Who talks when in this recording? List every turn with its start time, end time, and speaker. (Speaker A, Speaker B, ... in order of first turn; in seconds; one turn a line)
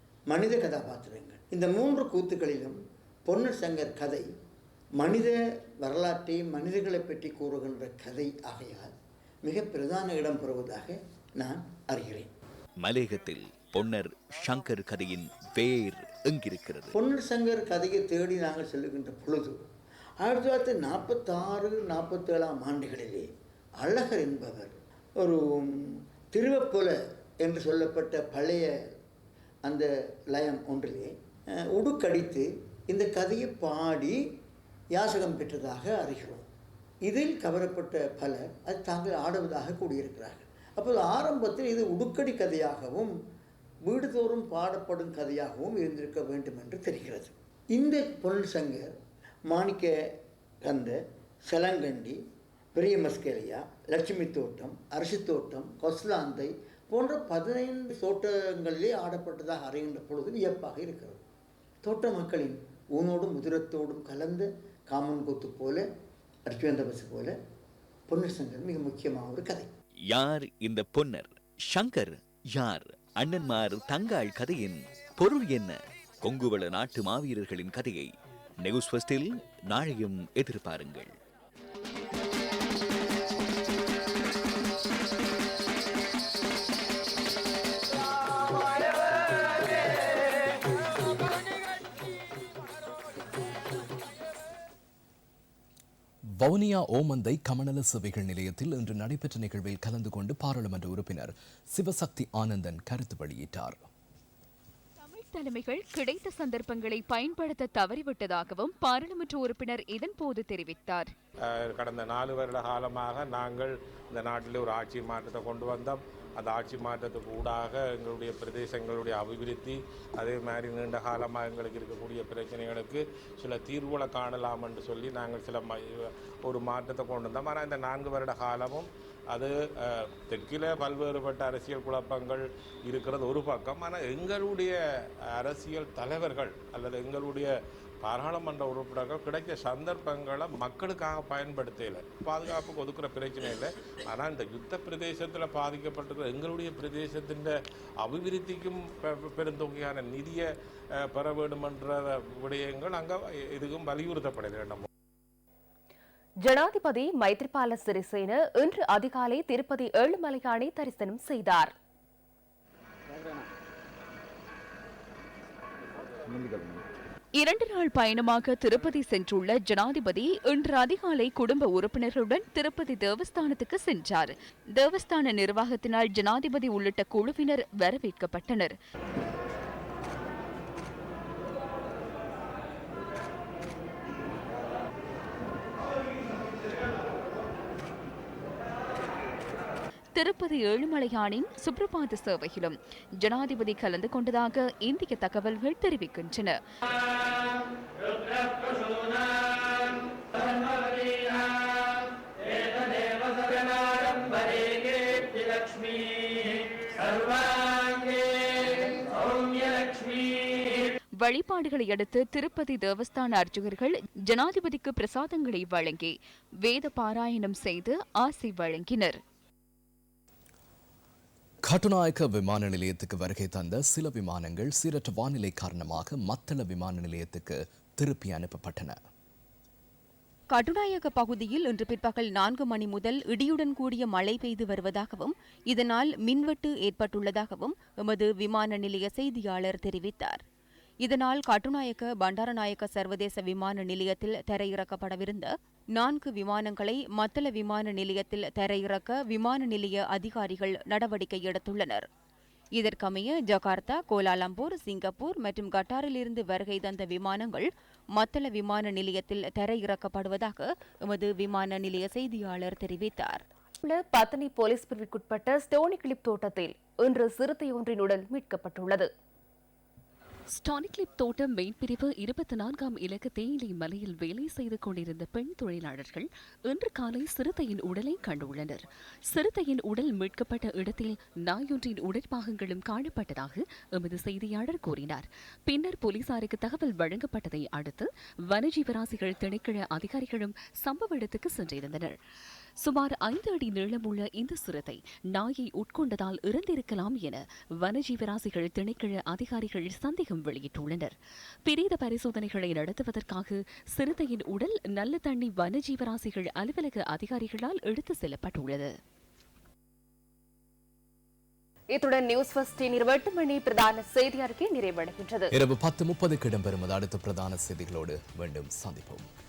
Speaker A: 0.3-4.3
Speaker A: 5.0-8.9
Speaker A: 9.4-12.3
Speaker B: 12.8-16.9
Speaker A: 16.9-19.6
Speaker A: 20.2-28.7
Speaker A: 29.6-34.2
Speaker A: 34.9-36.5
Speaker A: 37.0-43.1
Speaker A: 43.9-49.0
Speaker A: 49.5-52.2
Speaker A: 52.8-61.2
Speaker A: 61.8-65.8
Speaker A: 66.5-67.3
Speaker A: 68.1-69.7
Speaker B: 70.1-81.2
Speaker C: 96.4-103.9
Speaker D: 105.0-111.1
Speaker E: 111.5-137.5
Speaker E: 138.0-150.5
Speaker E: 151.0-154.9
Speaker F: 156.4-161.7
Speaker D: 167.4-178.7
Speaker D: 190.2-196.6
Speaker D: 211.2-219.2
Speaker C: 221.6-229.0
Speaker G: 230.5-240.4
Speaker G: 241.0-252.1
Speaker G: 252.8-263.4
Speaker F: 263.8-269.1
Speaker H: 270.5-292.2
Speaker H: 292.8-308.9
Speaker F: 311.9-315.5
Speaker C: 315.5-319.3